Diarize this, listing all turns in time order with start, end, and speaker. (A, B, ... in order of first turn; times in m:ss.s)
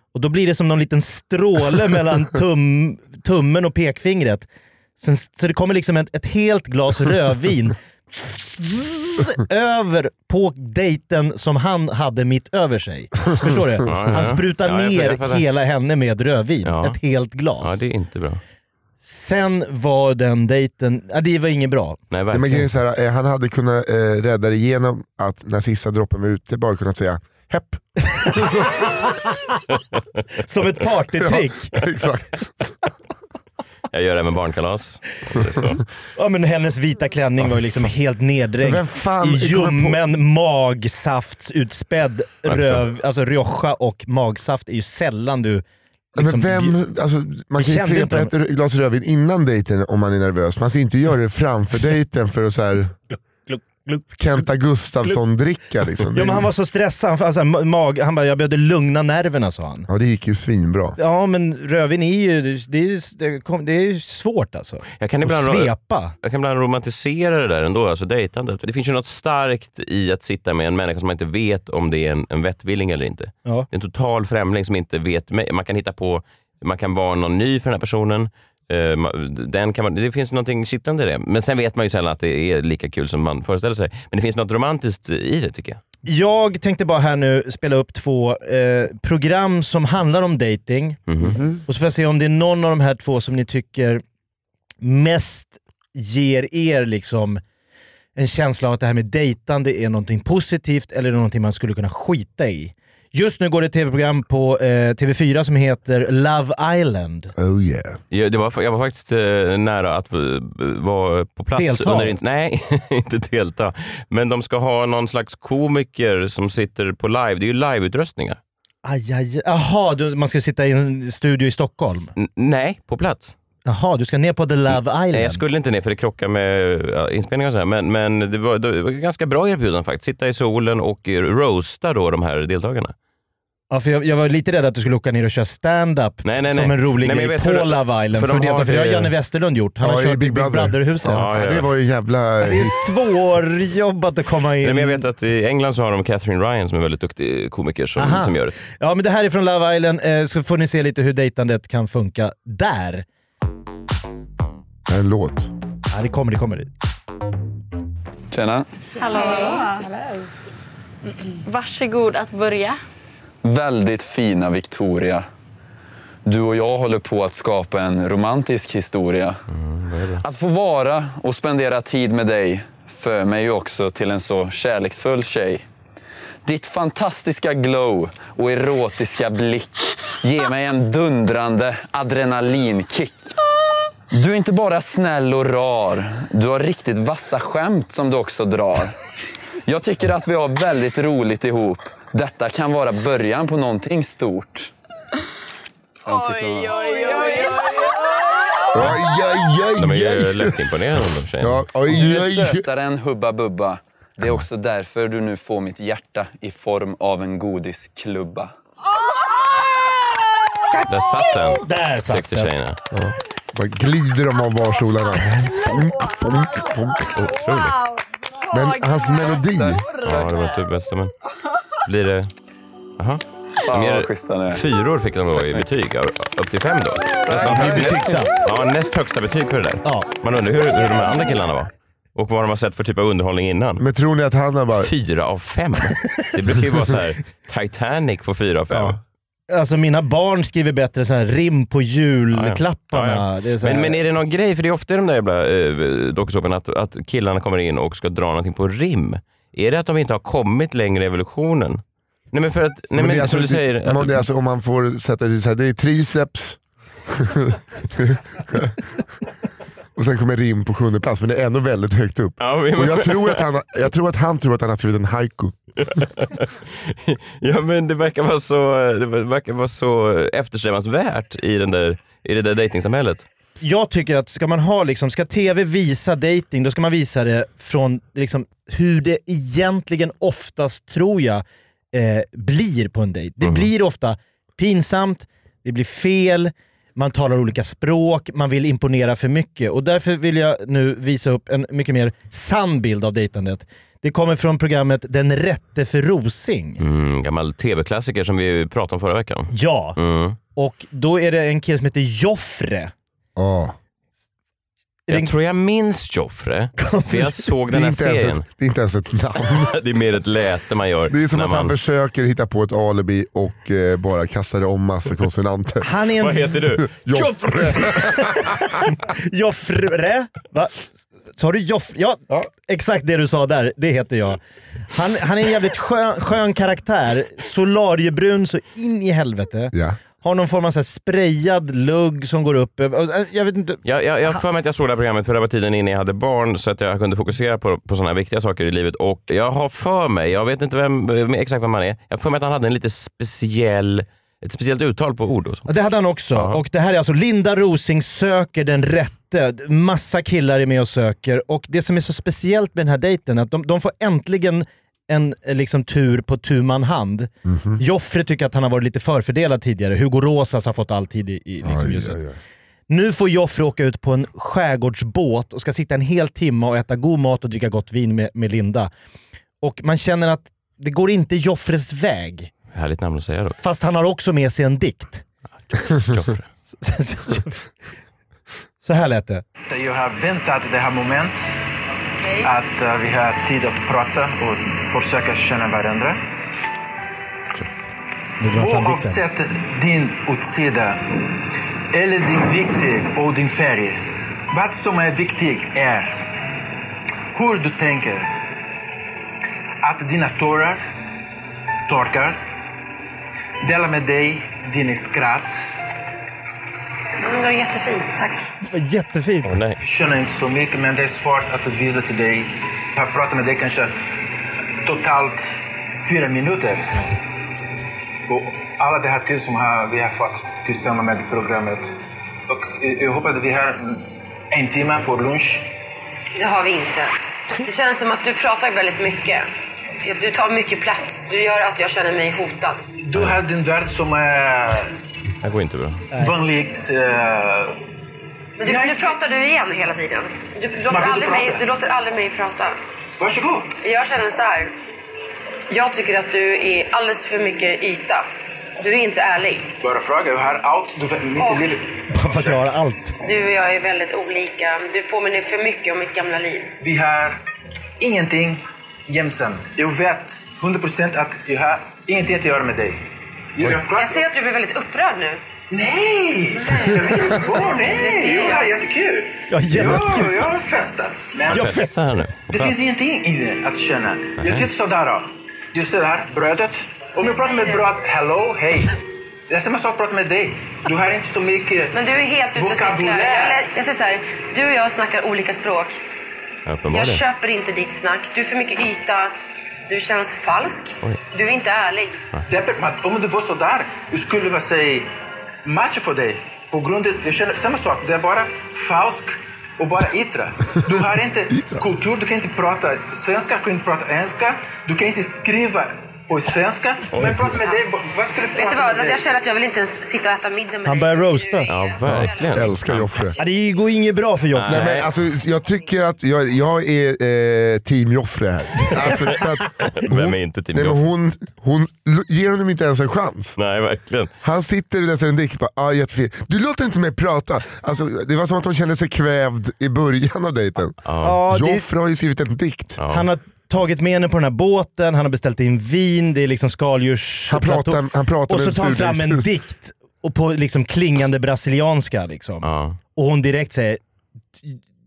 0:00.1-0:04.4 A
0:05.0-0:17.8 A
0:13.9-0:15.4 B
0:16.6-0:17.0 B
0:17.6-0:18.4 B
0:19.0-0:22.0 A
0:22.1-0:22.6 B
0:22.3-0:28.9 C
0:30.4-0:31.7 A
0:31.2-0:32.7 C
0:33.9-0:35.8 B
0:36.2-0:45.6 A
0:38.6-0:40.0 C
0:42.5-0:42.8 B
0:46.2-0:53.0 C
0:46.2-0:46.7 A
0:47.6-0:48.3 A
0:53.4-0:54.1 A
0:54.1-0:56.5 C
0:56.1-0:59.9 A
0:59.9-1:01.0 C
1:01.0-1:06.1 A
1:05.0-1:25.8 B
1:26.0-1:31.0 A
1:31.1-1:31.4 B
1:31.6-1:34.0 A
1:34.8-1:37.4 A
1:38.2-1:47.3 A
1:47.4-1:48.0 C
1:48.1-1:58.4 B
1:51.6-1:52.1 A
1:58.8-2:02.1 A
2:02.2-2:03.3 B
2:03.6-2:05.4 A
2:04.7-2:12.9 B
2:13.7-2:21.3 A
2:16.2-2:19.1 B
2:19.8-2:22.8 C
2:21.1-2:21.7 B
2:22.4-2:25.0 A
2:24.6-2:28.6 B
2:28.0-2:33.0 A
2:34.9-2:35.5 C
2:35.9-2:36.7 A
2:38.3-2:38.7 D
2:39.0-2:39.8 E
2:41.4-2:42.8 E
2:43.4-2:45.2 D
2:46.2-2:49.4 D
2:49.5-2:50.2 B
2:50.2-2:55.6 D
2:56.4-3:03.3 D
3:04.1-3:08.9 D
3:09.6-3:14.7 D
3:16.0-3:17.1 D
3:16.7-3:17.7 E
3:18.7-3:20.6 C
3:19.8-3:21.6 B
3:21.4-3:22.7 C
3:21.8-3:28.5 D
3:30.9-3:32.8 B
3:31.4-3:32.5 A
3:32.9-3:37.3 C
3:37.1-3:37.8 B
3:38.5-3:39.8 C
3:39.9-3:41.1 B
3:41.8-3:42.3 B
3:43.0-3:53.8 B
3:43.6-3:44.6 D
3:47.4-3:48.3 A
3:53.8-3:54.9 C
3:54.8-3:59.0 B
3:58.7-3:59.0 C
3:59.5-4:04.0 A
4:02.3-4:14.2 B
4:12.9-4:18.8 C
4:20.0-4:25.6 C
4:22.4-4:23.4 B
4:25.8-4:33.2 B
4:33.6-4:56.8 A
4:43.4-4:43.7 B
4:56.8-5:00.4 B
4:59.5-5:00.0 A
5:00.6-5:02.9 A
5:03.4-5:03.8 C
5:05.1-5:08.4 B
5:06.8-5:07.5 A
5:07.7-5:09.7 C
5:09.5-5:11.7 B
5:11.1-5:15.9 C
5:15.8-5:16.6 A
5:16.2-5:17.4 B
5:16.9-5:18.7 C
5:17.8-5:24.4 A
5:24.9-5:33.8 A
5:29.7-5:30.0 C
5:33.8-5:45.7 B
5:45.7-6:02.2 A
5:46.3-5:46.6 B
5:57.4-5:57.8 C
6:01.6-6:02.4 C
6:02.9-6:08.9 A
6:09.6-6:12.5 A
6:12.7-6:13.6 B
6:13.6-6:15.2 A
6:15.9-6:16.5 B
6:16.8-6:17.6 A
6:18.8-6:19.4 A
6:19.7-6:21.4 F
6:22.2-6:22.5 G
6:22.4-6:26.2 F
6:28.4-6:29.2 A
6:28.5-6:31.2 F
6:31.9-6:36.2 F
6:37.3-6:38.3 F
6:39.8-6:40.8 F
6:41.9-6:42.4 F
6:43.6-6:45.6 F
6:47.2-6:48.5 G
6:48.6-6:49.5 A
6:49.4-6:49.8 B
6:49.8-6:54.0 F
6:54.8-6:57.1 F
6:58.3-7:02.0 F
7:02.5-7:05.7 F
7:06.4-7:09.4 G
7:10.0-7:12.8 G
7:13.0-7:14.9 F
7:15.4-7:16.1 B
7:16.1-7:17.8 F
7:18.6-7:22.8 G
7:18.6-7:19.2 F
7:20.9-7:21.6 F
7:23.2-7:23.7 F
7:23.8-7:24.7 G
7:25.7-7:28.2 G
7:28.8-7:29.7 G
7:29.8-7:32.7 F
7:31.4-7:31.7 G
7:32.1-7:33.1 A
7:33.2-7:36.7 G
7:36.8-7:37.4 F
7:38.0-7:43.0 F
7:43.6-7:44.2 F
7:43.9-7:45.4 G
7:45.7-7:51.9 F
7:46.5-7:48.7 G
7:49.5-7:50.4 A
7:51.5-7:52.8 B
7:51.5-7:51.9 A
7:52.5-7:59.0 F
7:54.4-7:54.6 B
7:57.2-7:57.9 G
7:59.5-8:01.9 F
8:01.9-8:06.0 G
8:02.5-8:03.6 F
8:06.6-8:07.2 B
8:06.9-8:09.3 G
8:09.9-8:12.2 G
8:12.5-8:15.1 F
8:15.6-8:29.2 F
8:21.5-8:21.8 C
8:28.5-8:33.5 G
8:30.8-8:31.7 A
8:31.7-8:33.1 B
8:32.0-8:33.4 C
8:33.4-8:35.0 A
8:34.5-8:35.1 B
8:34.7-8:43.5 C
8:39.9-8:41.0 B
8:43.6-8:44.3 B
8:44.4-8:53.0 C
8:51.0-8:51.3 B
8:51.2-8:51.8 A
8:53.0-8:53.2 B
8:53.1-9:04.0 A
8:57.5-8:59.5 C
9:02.6-9:03.0 B